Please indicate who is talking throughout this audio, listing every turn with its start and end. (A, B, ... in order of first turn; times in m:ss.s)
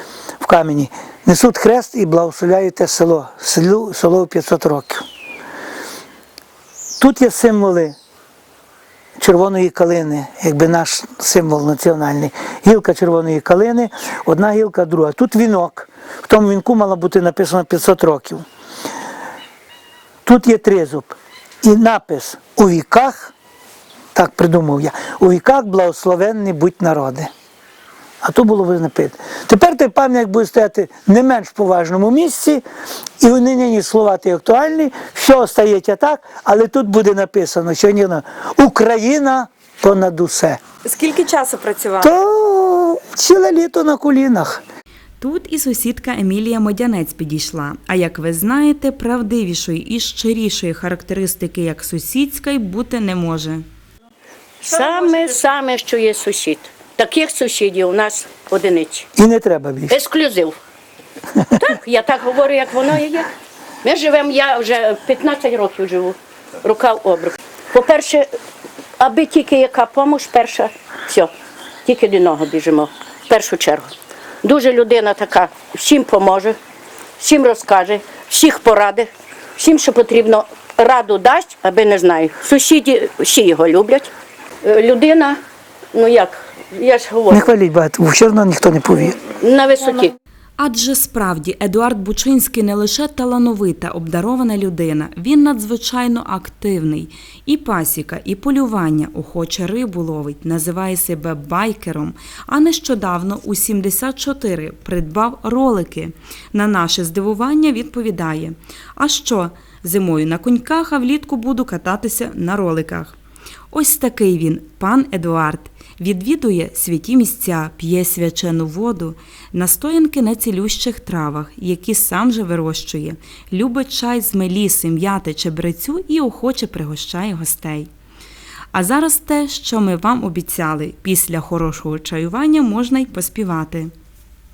0:00.4-0:05.0 A
0:07.0-0:07.9 A
0:09.2-0:18.4 A
0:20.2-0:23.3 A
0:24.1-0:27.3 A
0:28.2-0:32.6 A
0:33.2-0:40.6 A
0:40.8-0:42.1 B
0:42.0-0:44.6 A
0:45.2-0:53.6 B
0:54.6-0:59.1 C
0:59.1-1:00.0 A
0:59.9-1:00.6 C
1:01.6-1:03.3 C
1:03.8-1:08.3 C
1:09.0-1:11.3 C
1:11.8-1:16.6 C
1:17.2-1:24.1 C
1:24.6-1:25.4 C
1:25.9-1:27.5 C
1:27.3-1:29.2 A
1:29.1-1:30.1 C
1:30.6-1:53.2 B
1:53.7-2:07.9 B
2:08.7-2:13.9 B